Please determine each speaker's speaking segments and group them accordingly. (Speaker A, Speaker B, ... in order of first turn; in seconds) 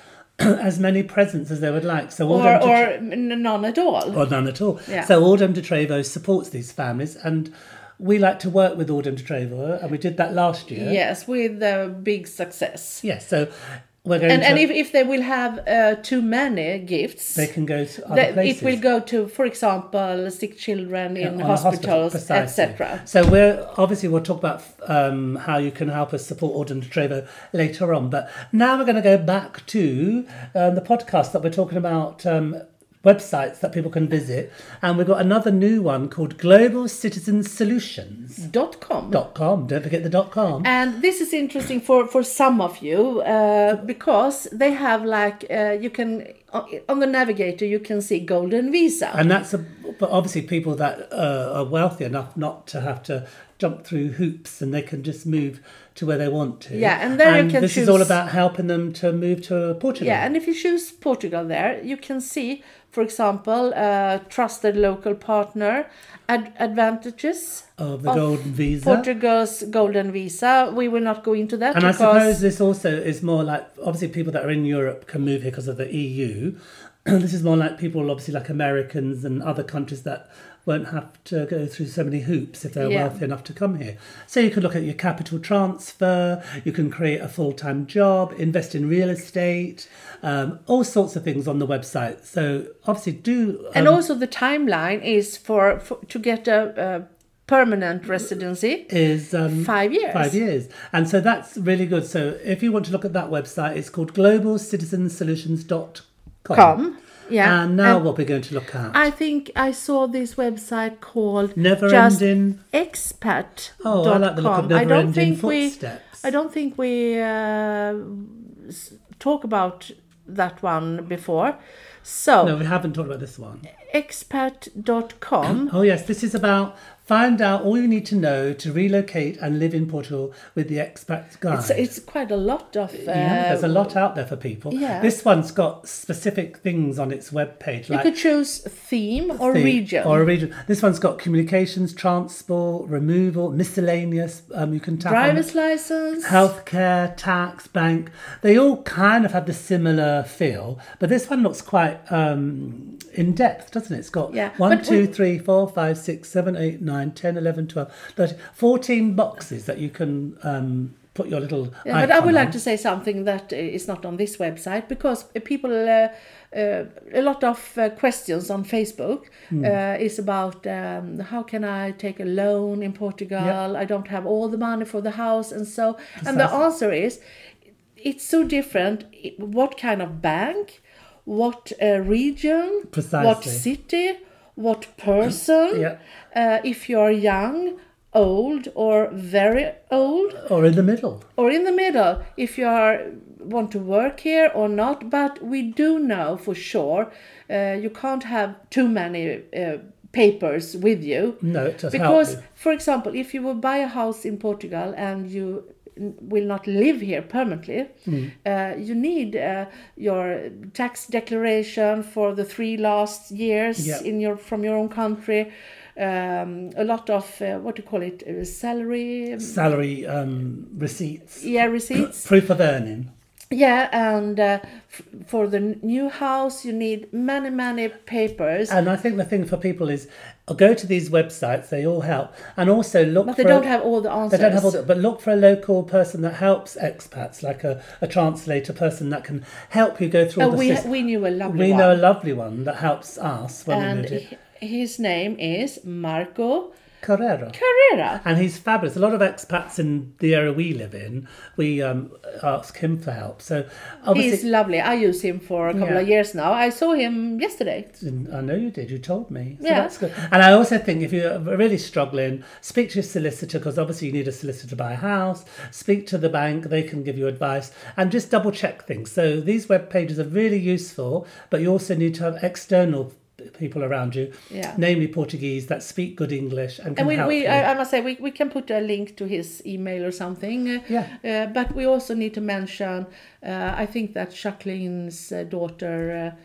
Speaker A: 0.4-2.9, 4.1-11.0, 13.0-14.7, 17.4-18.8, 21.2-38.4, 39.1-40.7, 49.1-60.2, 67.8-69.1, 71.7-94.0, 98.9-106.8, 107.4-109.1, 111.5-112.6, 113.8-116.2, 122.4-123.7, 125.4-131.9, 133.0-138.1, 139.3-145.5, 146.2-162.5, 176.2-176.6, 182.9-183.6, 190.4-191.2, 201.4-202.4, 208.1-208.3, 213.8-214.0, 219.4-223.1, 228.7-233.7, 234.3-240.9, 241.4-244.2, 247.0-247.6, 248.2-254.4, 255.7-256.1, 258.0-277.6
Speaker B: 2.3-4.2, 10.7-13.0, 14.3-17.5, 18.1-23.0, 38.4-39.2, 40.6-49.2, 56.7-58.2, 60.0-72.4, 82.8-83.2, 93.7-98.9, 99.5-100.4, 106.5-108.0, 108.9-122.5, 123.8-125.7, 131.5-133.9, 134.7-135.1, 137.9-140.2, 145.0-146.5, 154.3-155.1, 161.8-177.2, 178.0-190.4, 191.4-207.9, 208.4-219.6, 221.4-222.2, 223.5-228.7, 233.2-234.8, 240.4-242.0, 243.7-246.7, 247.5-248.2, 254.1-257.9, 259.6-259.9, 274.5-274.8, 277.0-286.3